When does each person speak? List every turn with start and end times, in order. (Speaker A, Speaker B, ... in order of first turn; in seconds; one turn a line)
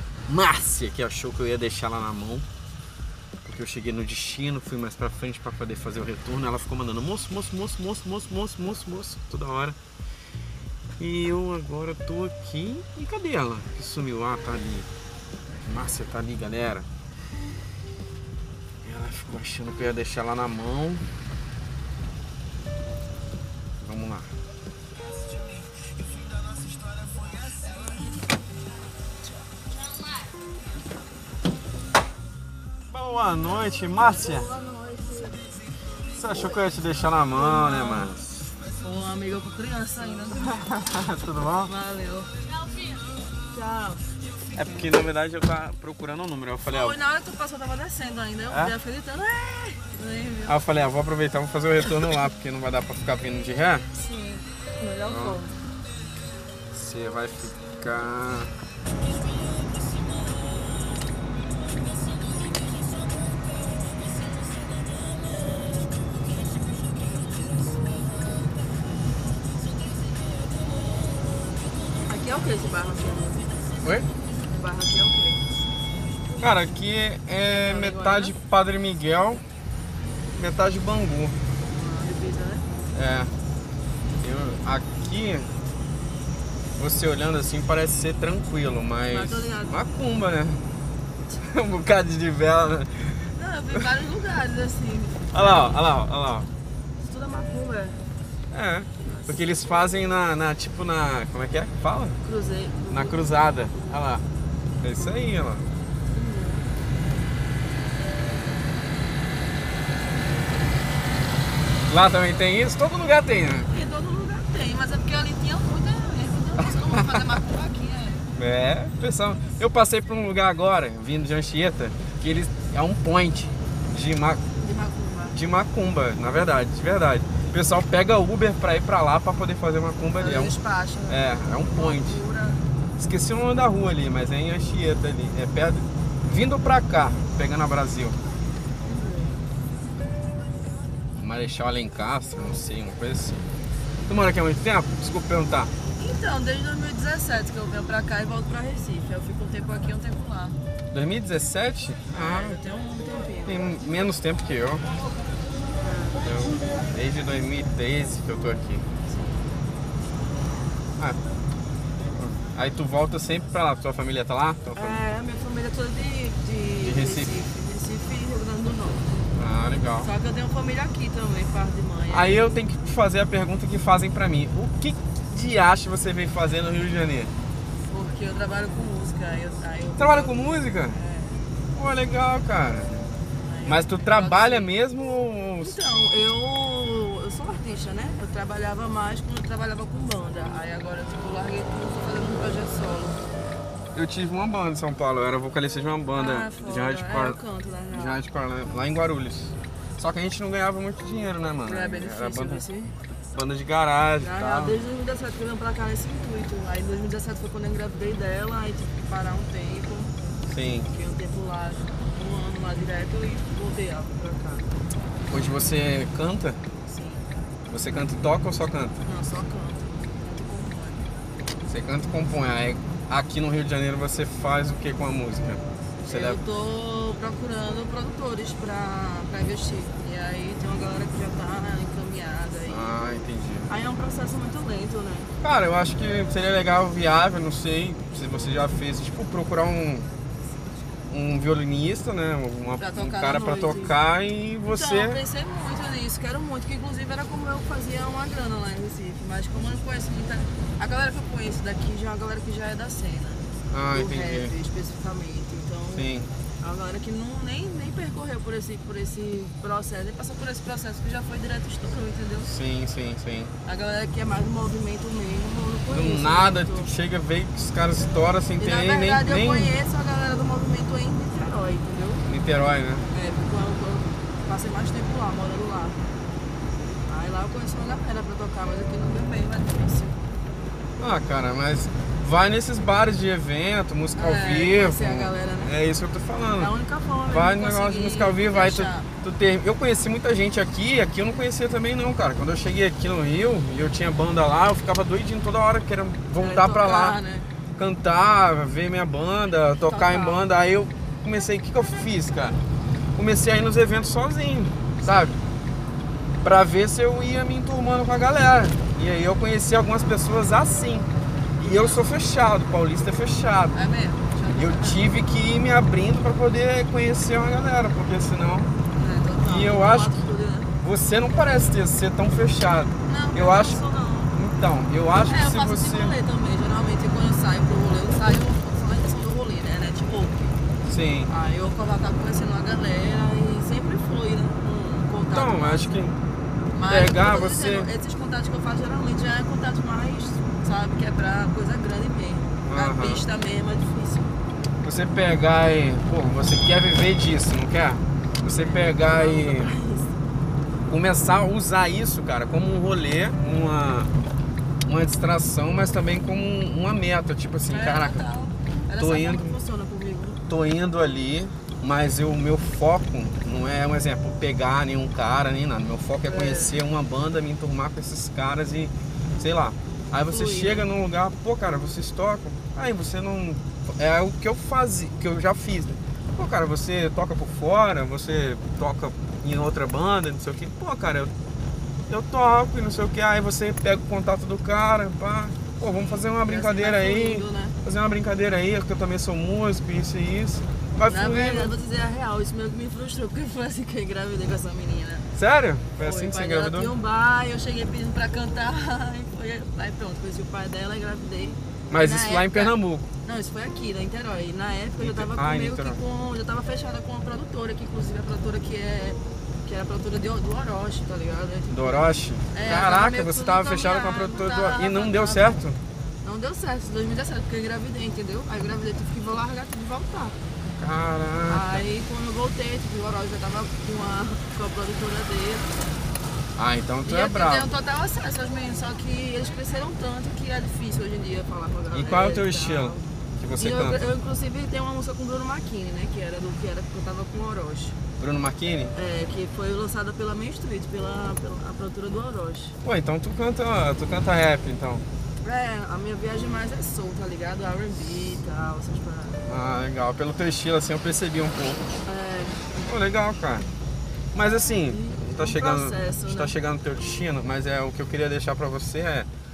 Speaker A: 0.3-2.5
Speaker A: 3.4-9.8
Speaker A: 11.0-14.9
Speaker A: 15.6-16.9
Speaker A: 18.8-21.1
Speaker A: 23.8-24.3
Speaker A: 32.9-34.5
Speaker B: 34.0-35.5
Speaker A: 36.1-38.5
Speaker B: 36.3-36.6
Speaker B: 37.3-38.1
Speaker B: 38.8-40.6
Speaker A: 40.3-41.7
Speaker B: 41.6-42.3
Speaker B: 43.5-44.0
Speaker A: 44.5-47.0
Speaker B: 46.6-50.6
Speaker A: 48.5-48.7
Speaker A: 50.5-53.9
Speaker B: 51.8-52.1
Speaker B: 53.9-55.6
Speaker A: 55.1-55.4
Speaker A: 56.7-58.5
Speaker B: 72.1-73.5
Speaker A: 73.8-74.1
Speaker B: 74.5-75.4
Speaker A: 76.4-79.4
Speaker B: 77.4-78.3
Speaker A: 80.3-81.3
Speaker B: 81.7-82.7
Speaker A: 82.9-83.3
Speaker A: 84.2-85.5
Speaker A: 86.8-90.6
Speaker B: 89.1-89.8
Speaker A: 91.3-93.8
Speaker B: 93.3-95.9
Speaker A: 95.3-96.5
Speaker B: 97.0-98.0
Speaker A: 98.5-102.2
Speaker B: 99.0-99.7
Speaker B: 102.2-103.8
Speaker A: 102.9-104.2
Speaker A: 104.8-105.7
Speaker B: 106.1-106.7
Speaker A: 111.9-113.7
Speaker B: 113.7-118.3
Speaker A: 116.7-117.2
Speaker A: 118.3-124.4
Speaker B: 124.6-125.4
Speaker A: 125.3-132.2
Speaker B: 130.2-132.6
Speaker A: 133.0-138.2
Speaker B: 138.8-139.4
Speaker A: 141.2-143.4
Speaker A: 144.1-145.7
Speaker B: 145.9-150.6
Speaker A: 150.9-152.6
Speaker B: 152.1-153.7
Speaker A: 153.4-154.9
Speaker B: 155.8-156.2
Speaker A: 156.2-158.8
Speaker B: 159.1-159.5
Speaker A: 162.1-165.0
Speaker B: 164.8-169.1
Speaker A: 166.8-167.3
Speaker A: 169.3-170.1
Speaker B: 170.0-172.6
Speaker A: 172.1-177.3
Speaker B: 177.9-181.5
Speaker A: 180.0-181.0
Speaker A: 181.8-183.1
Speaker B: 183.4-184.7
Speaker A: 183.7-185.8
Speaker B: 185.6-193.2
Speaker A: 193.9-197.4
Speaker B: 196.1-198.2
Speaker A: 197.9-202.6
Speaker B: 201.6-202.9
Speaker A: 203.3-204.8
Speaker B: 204.2-210.2
Speaker A: 210.5-210.9
Speaker B: 210.9-214.7
Speaker A: 215.3-216.6
Speaker B: 216.9-217.3
Speaker A: 217.7-219.0
Speaker B: 219.0-221.1
Speaker A: 221.7-226.4
Speaker B: 226.0-232.9
Speaker A: 232.7-233.7
Speaker B: 233.7-235.3
Speaker A: 235.4-240.1
Speaker A: 241.1-245.2
Speaker B: 242.8-244.0
Speaker B: 244.7-262.5
Speaker A: 253.7-254.5
Speaker A: 255.9-256.3
Speaker A: 262.4-263.5
Speaker B: 263.6-266.9
Speaker A: 265.9-269.7
Speaker B: 268.6-272.2
Speaker A: 272.3-273.1
Speaker B: 273.1-276.0
Speaker B: 277.1-280.2
Speaker A: 281.0-286.7
Speaker B: 284.2-285.7
Speaker B: 286.6-289.1
Speaker A: 287.3-297.2
Speaker B: 296.4-297.5
Speaker A: 297.8-302.6
Speaker B: 299.8-300.5
Speaker A: 303.2-305.4
Speaker A: 306.4-313.8
Speaker B: 311.6-312.1
Speaker B: 313.7-315.1
Speaker A: 314.5-318.7
Speaker B: 319.0-320.7
Speaker A: 319.4-320.2
Speaker A: 320.8-326.2
Speaker B: 323.1-324.3
Speaker B: 325.2-330.6
Speaker A: 330.9-331.3
Speaker B: 331.3-336.1
Speaker A: 335.3-336.2
Speaker B: 336.7-344.3
Speaker A: 336.9-337.9
Speaker A: 342.6-343.2
Speaker A: 344.8-349.7
Speaker B: 348.4-350.2
Speaker A: 350.9-354.1
Speaker A: 354.9-358.2
Speaker B: 357.7-360.4
Speaker A: 358.9-359.6
Speaker A: 360.5-381.3
Speaker B: 366.3-366.8
Speaker B: 370.3-370.9
Speaker A: 382.1-391.7
Speaker B: 385.9-387.8
Speaker B: 391.1-395.3
Speaker A: 395.4-396.9
Speaker B: 396.0-411.9
Speaker A: 401.9-403.1
Speaker A: 405.0-406.0
Speaker A: 411.7-415.8
Speaker B: 412.5-415.6
Speaker B: 416.2-420.4
Speaker A: 420.7-421.9
Speaker B: 421.5-425.9
Speaker A: 426.6-427.7
Speaker B: 427.1-433.1
Speaker A: 431.9-434.0
Speaker B: 433.6-438.0
Speaker A: 438.2-438.9
Speaker B: 438.9-442.8
Speaker A: 442.8-445.1
Speaker B: 445.4-449.5
Speaker A: 449.5-451.9
Speaker B: 452.0-452.8
Speaker A: 452.8-453.7
Speaker A: 454.3-459.3
Speaker B: 454.6-456.5